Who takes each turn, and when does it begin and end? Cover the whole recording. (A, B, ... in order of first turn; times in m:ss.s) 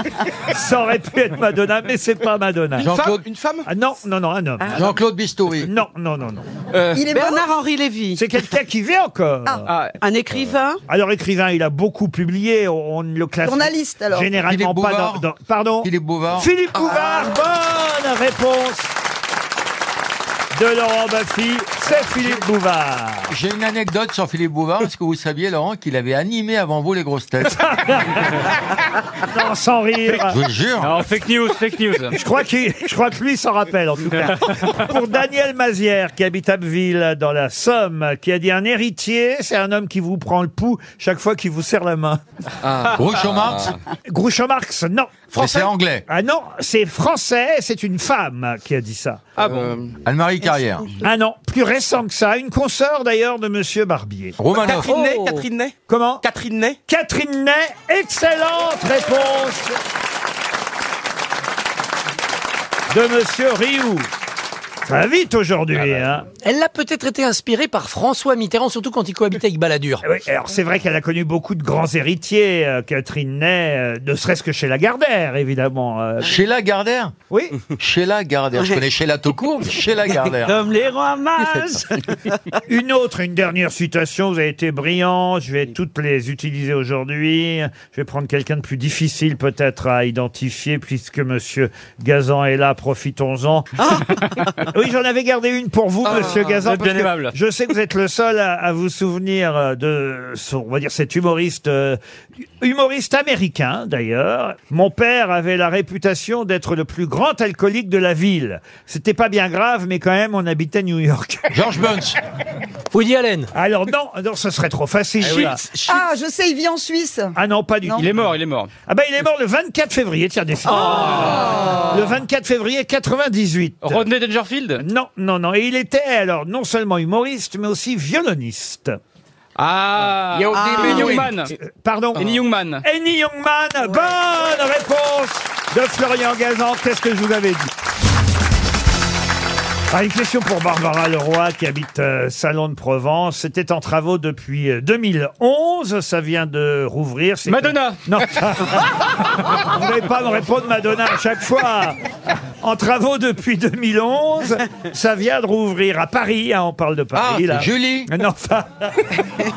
0:00.5-0:02.9 A
0:02.8-0:03.7 B
0:02.8-0:03.2 C
0:03.6-0:04.9 A
0:04.6-0:04.9 D
0:04.7-0:05.7 C
0:05.6-0:06.4 A
0:06.9-0:07.4 E
0:07.1-0:08.2 D
0:08.2-0:09.6 A
0:09.7-0:09.9 F
0:10.0-0:10.8 D
0:10.9-0:18.9 A
0:13.4-0:14.3 E
0:14.4-0:15.2 C
0:15.8-0:16.5 C
0:20.5-0:23.3 A
0:23.3-0:27.6 C
0:27.4-0:28.5 A
0:29.2-0:30.4 A
0:30.2-0:31.0 C
0:30.8-0:32.2 F
0:32.1-0:42.2 A
0:42.6-0:43.6 B
0:42.9-0:43.7 C
0:44.1-0:49.5 A
0:45.3-0:46.0 C
0:49.4-0:50.0 B
0:50.0-0:50.8 C
0:51.0-0:54.4 A
0:54.4-0:55.0 C
0:54.6-0:56.8 B
0:55.9-0:56.2 A
0:56.9-0:59.8 A
1:02.9-1:04.1 A
1:04.8-1:06.2 A
1:06.4-1:10.0 G
1:10.0-1:16.4 A
1:16.2-1:17.1 C
1:17.3-1:17.6 A
1:17.7-1:20.7 C
1:18.6-1:18.8 D
1:20.1-1:22.1 D
1:22.7-1:34.0 A
1:33.8-1:34.5 D
1:34.7-1:42.0 A
1:36.0-1:36.5 B
1:36.1-1:37.3 F
1:42.6-1:51.5 A
1:51.5-1:52.2 C
1:52.9-1:53.5 G
1:53.5-1:55.6 A
1:55.2-1:56.0 B
1:55.8-1:57.3 E
1:57.3-1:58.1 A
1:58.0-1:58.7 F
1:58.9-2:04.0 A
2:00.7-2:01.9 D
2:03.8-2:04.8 F
2:04.8-2:09.0 A
2:09.6-2:11.5 F
2:10.5-2:11.3 C
2:10.5-2:11.2 D
2:11.6-2:17.7 A
2:12.1-2:12.8 F
2:19.9-2:32.0 A
2:27.4-2:28.0 F
2:32.6-2:39.2 A
2:37.1-2:38.1 C